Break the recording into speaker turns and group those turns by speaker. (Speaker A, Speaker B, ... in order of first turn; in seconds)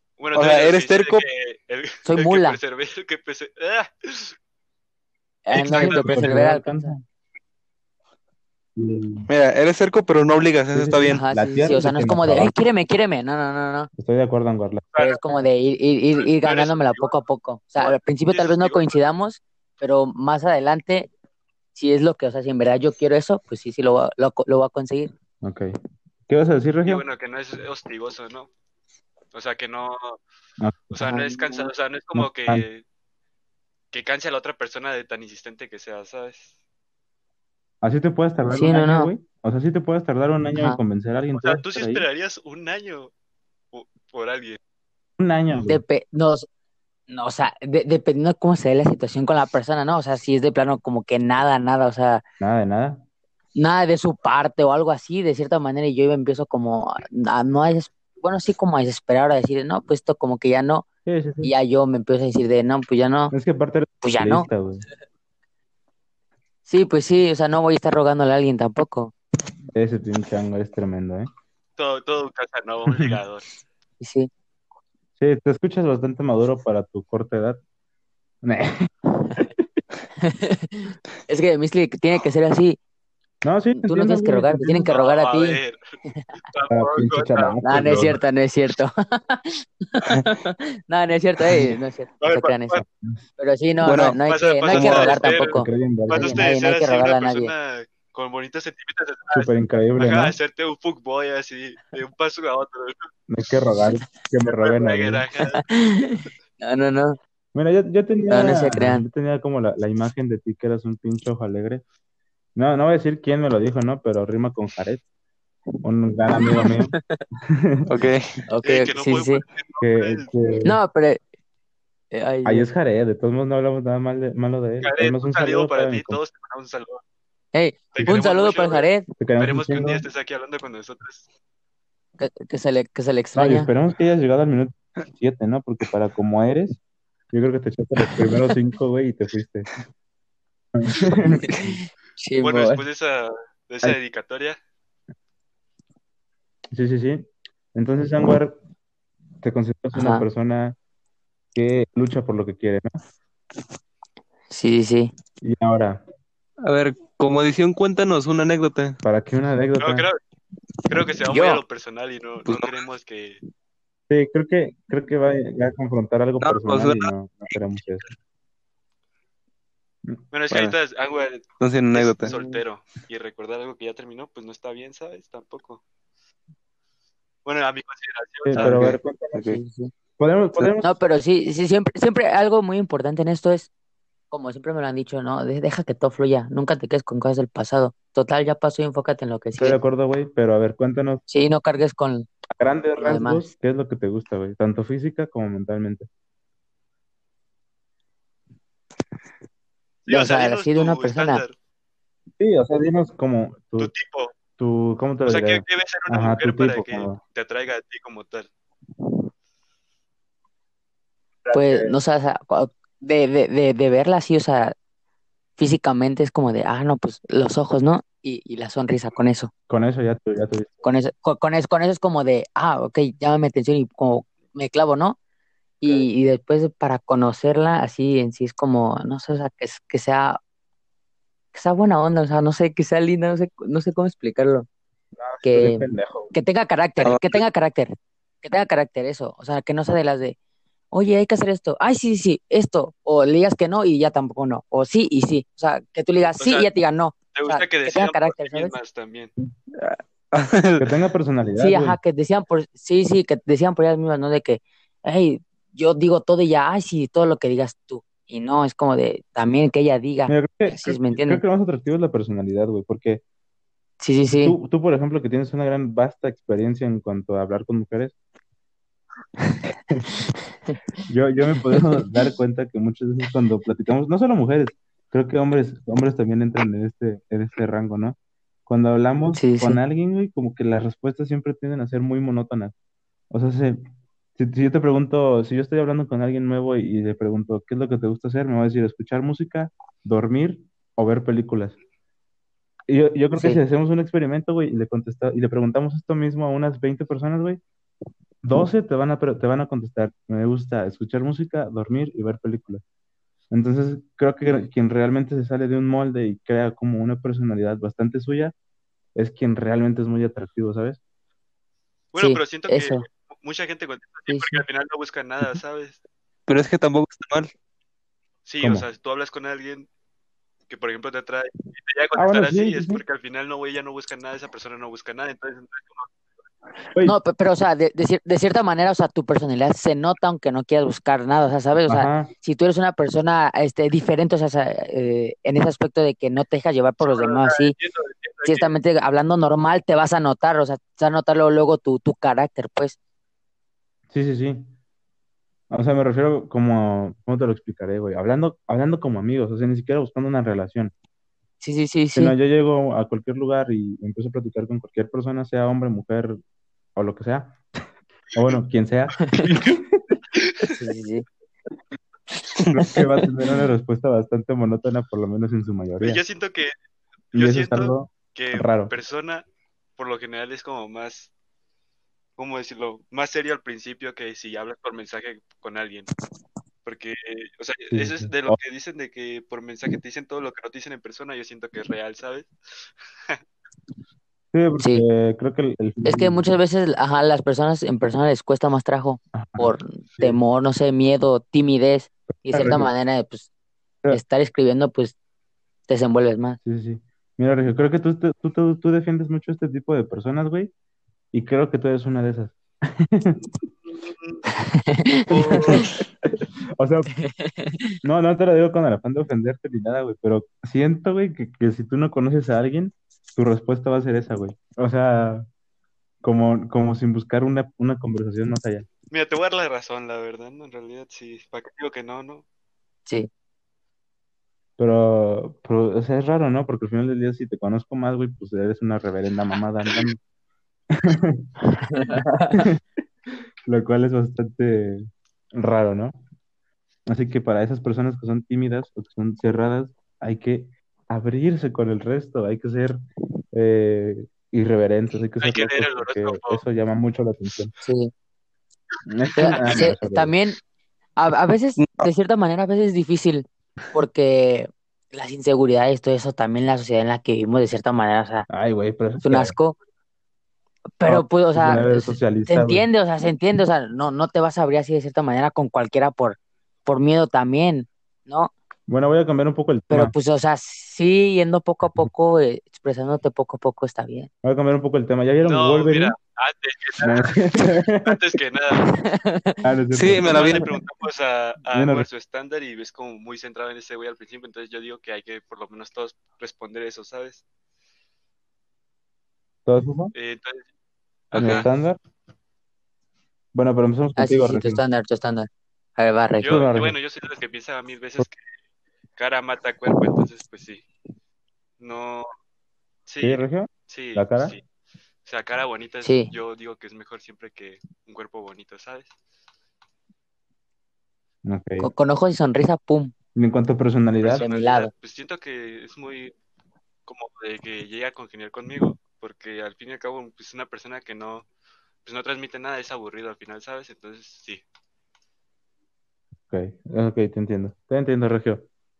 Speaker A: 0.2-4.4, 5.5-6.4, 14.9-15.2, 16.1-17.2, 17.8-19.0, 26.8-28.5, 29.3-30.2, 30.9-32.8, 33.9-36.5, 41.3-43.1, 43.7-44.6, 71.8-73.5, 84.8-85.8, 86.4-87.8, 92.2-92.8, 94.3-103.1, 104.5-105.6, 118.6-120.3, 124.8-127.0, 127.9-128.9, 129.4-131.3, 142.4-144.6, 159.8-160.2, 160.9-163.4, 170.3-175.8, 177.4-178.7, 200.0-201.5, 203.8-204.3, 205.3-208.5, 246.4-246.7, 247.3-249.3, 312.1-316.0, 318.4-319.9, 320.7-326.1, 337.0-338.7, 360.3-360.7, 366.0-366.7, 367.3-369.4, 370.0-371.3, 372.4-376.1, 376.8-382.5, 404.0-404.4, 405.3-405.9, 419.1-422.4, 445.4-446.6, 449.5-449.9, 475.4-477.3, 478.0-478.9, 480.2-487.4, 490.1-490.7, 491.3-491.7, 496.4-498.4, 499.1-500.9, 501.8-502.3, 503.1-504.6, 505.2-509.1, 514.2-516.3, 517.1-521.5, 522.0-524.6
Speaker B: 0.3-1.2, 9.3-11.2, 93.8-94.2, 94.7-95.0, 117.9-118.4, 156.6-159.0, 162.4-162.7, 166.4-167.1, 171.6-172.3, 178.5-179.6, 237.0-237.4, 249.7-250.9, 316.5-317.5, 362.6-362.9, 451.8-452.1, 479.9-480.7, 491.3-491.6
Speaker C: 2.0-2.6, 5.5-6.9, 11.1-13.9, 15.0-21.1, 21.7-25.1, 30.9-31.7, 38.5-39.1, 45.7-46.5, 47.1-52.2, 53.5-60.9, 61.4-63.3, 64.0-64.5, 66.7-69.1, 74.0-74.3, 80.2-82.8, 83.7-86.2, 87.6-92.8, 93.4-97.5, 105.6-107.2, 108.3-109.0, 116.3-117.2, 118.5-119.4, 120.6-121.2, 122.1-122.7, 127.5-129.1, 132.2-133.7, 141.4-142.8, 149.9-150.2, 154.5-155.1, 161.3-161.6, 172.2-172.6, 179.4-179.9, 180.8-183.7, 184.3-189.8, 191.3-192.3, 193.0-193.5, 200.1-201.4, 211.5-214.7, 215.6-219.5, 220.8-225.2, 225.8-230.4, 231.5-234.7, 235.4-240.3, 240.9-248.7, 251.6-261.4, 264.0-264.6, 279.3-279.8, 293.4-293.6, 312.1-313.0, 314.3-314.6, 327.0-337.7, 338.4-342.9, 351.6-352.3, 360.7-361.2, 384.8-385.0, 386.0-393.5, 394.1-395.1, 395.9-396.6, 404.5-405.9, 407.2-407.9, 431.7-432.6, 447.8-448.1, 449.4-450.6, 451.1-458.5, 459.2-459.8, 461.0-468.5, 469.9-474.3, 479.0-479.6, 494.1-496.5, 506.0-506.3, 511.8-513.1, 514.4-514.9
Speaker D: 5.7-7.0, 8.8-9.3, 10.7-12.5, 14.0-14.8, 25.4-25.7, 26.3-27.0, 32.1-32.6, 37.8-42.0, 45.2-45.8, 52.4-53.0, 61.0-61.5, 63.3-64.8, 69.7-71.3, 72.9-73.2, 75.2-77.6, 78.4-79.5, 83.4-84.9, 86.7-88.2, 92.8-93.3, 94.8-96.5, 99.3-100.4, 103.3-105.2, 107.5-111.8, 112.5-115.0, 115.8-117.9, 119.8-120.8, 122.4-126.2, 129.2-130.0, 133.3-136.8, 137.3-139.7, 140.7-141.8, 146.7-148.6, 149.4-150.8, 151.5-152.9, 155.4-156.0, 159.0-160.1, 164.1-168.1, 178.4-179.5, 180.2-181.0, 189.6-191.2, 192.6-196.1, 202.4-203.9, 204.6-207.2, 211.4-211.9, 219.7-220.7, 235.2-236.3, 250.8-252.0, 260.3-263.2, 264.4-268.1, 271.1-282.7, 283.3-283.8, 284.4-291.8, 292.9-297.6, 298.4-302.8, 303.5-308.5, 309.1-311.0, 318.6-318.9, 322.1-323.0, 331.9-332.3, 344.1-344.7, 345.7-350.9, 352.1-356.4, 356.9-357.6, 358.3-360.0, 362.7-366.2, 367.3-368.9, 377.9-378.6, 384.5-386.5, 389.3-390.4, 392.5-392.9, 396.6-400.7, 401.3-403.4, 405.3-407.1, 408.0-415.5, 416.2-418.9, 424.8-430.2, 430.9-431.5, 432.6-432.8, 433.6-436.2, 437.1-443.0, 443.5-447.7, 449.1-450.3, 458.5-459.5, 461.0-462.9, 468.9-470.1, 474.4-476.1, 477.0-478.2, 479.6-480.4, 481.7-482.1, 489.6-490.1, 491.3-492.0, 493.5-494.8, 496.4-496.9, 503.2-504.6, 511.4-511.9, 513.3-514.4, 526.5-528.7